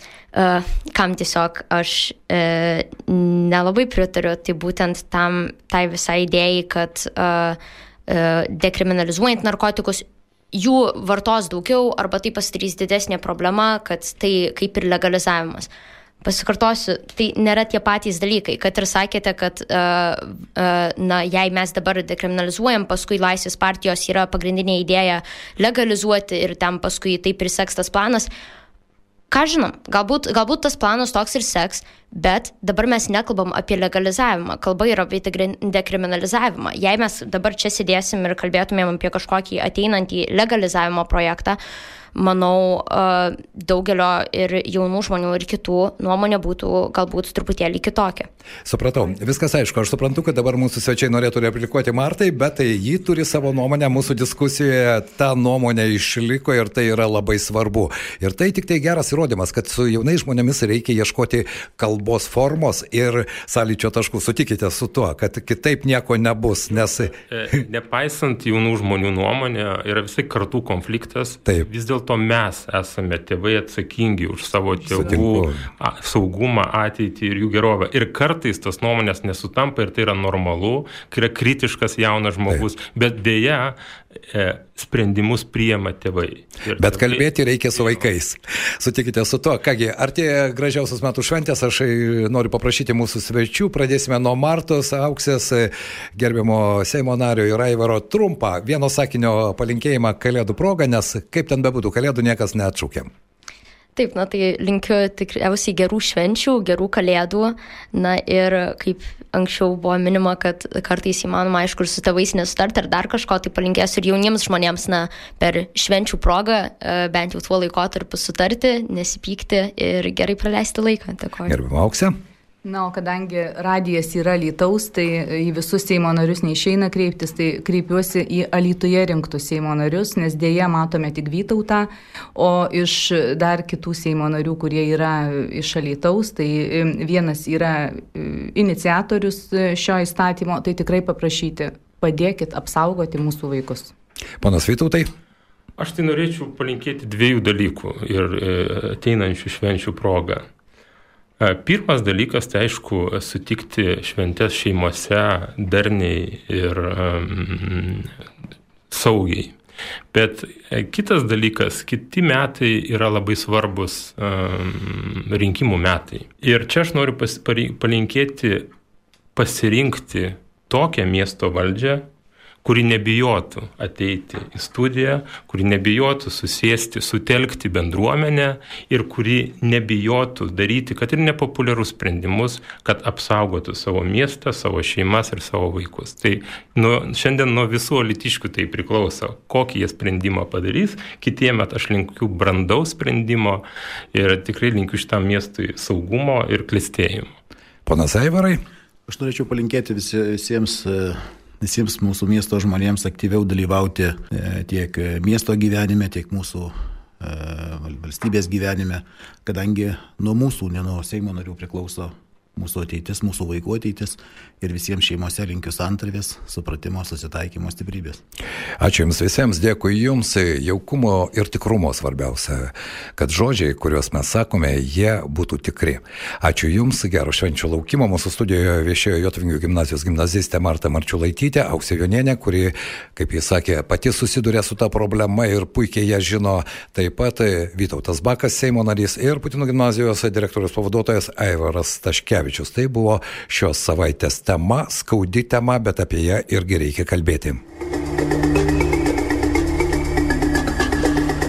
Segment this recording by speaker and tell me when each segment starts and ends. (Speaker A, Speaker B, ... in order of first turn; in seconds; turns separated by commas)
Speaker A: 0.3-15.7, Speaker A: 16.2-28.3, Speaker A: 29.3-41.6, Speaker A: 42.1-48.3, Speaker B: 48.6-67.2, Speaker C: 66.7-88.1, Speaker B: 74.9-75.7, Speaker B: 86.8-103.1, Speaker A: 104.0-121.6, Speaker B: 121.5-122.2, Speaker D: 122.7-143.9, Speaker B: 144.4-145.1, Speaker C: 145.8-150.5, Speaker C: 151.4-158.1, Speaker C: 158.9-159.5, Speaker C: 160.1-168.7, Speaker C: 169.4-172.1, Speaker C: 172.6-193.6, Speaker C: 194.1-197.4, Speaker B: 197.9-198.6, Speaker E: 199.1-218.2, Speaker B: 218.8-247.6